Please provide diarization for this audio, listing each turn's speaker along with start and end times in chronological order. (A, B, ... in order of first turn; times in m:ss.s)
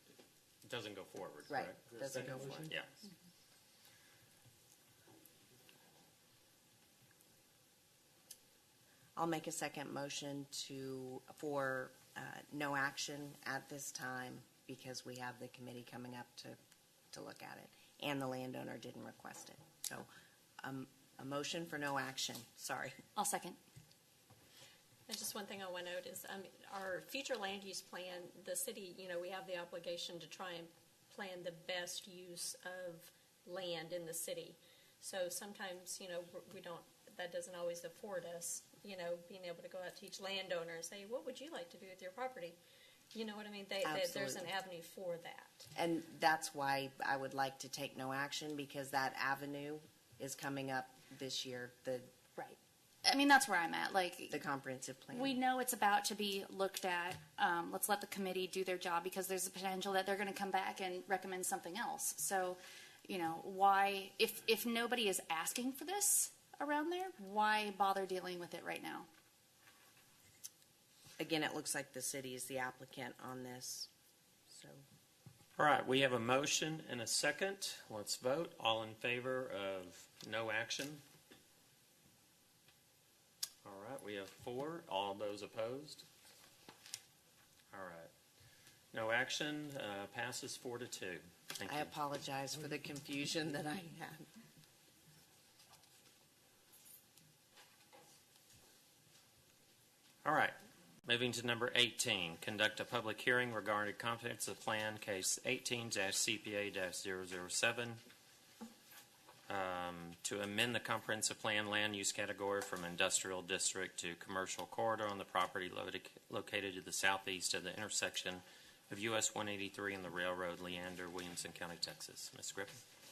0:00.6-0:01.7 A
0:01.5-0:02.8 B
0:09.2-0:16.6 B
0:17.1-0:20.1 B
0:20.6-0:22.9 B
0:23.1-0:23.6 C
0:25.1-0:42.6 D
0:43.1-0:45.7 D
0:43.8-0:44.5 B
0:45.7-0:52.1 B
0:53.0-0:54.4 C
0:54.3-0:55.4 B
0:55.1-1:09.1 C
1:11.2-1:13.9 B
1:14.5-1:14.8 B
1:15.6-1:21.0 A
1:23.6-1:26.0 A
1:27.7-1:28.1 A
1:28.9-1:31.8 A
1:31.6-1:34.2 B
1:40.2-1:40.5 A
1:41.0-1:48.0 A
1:49.5-2:02.8 A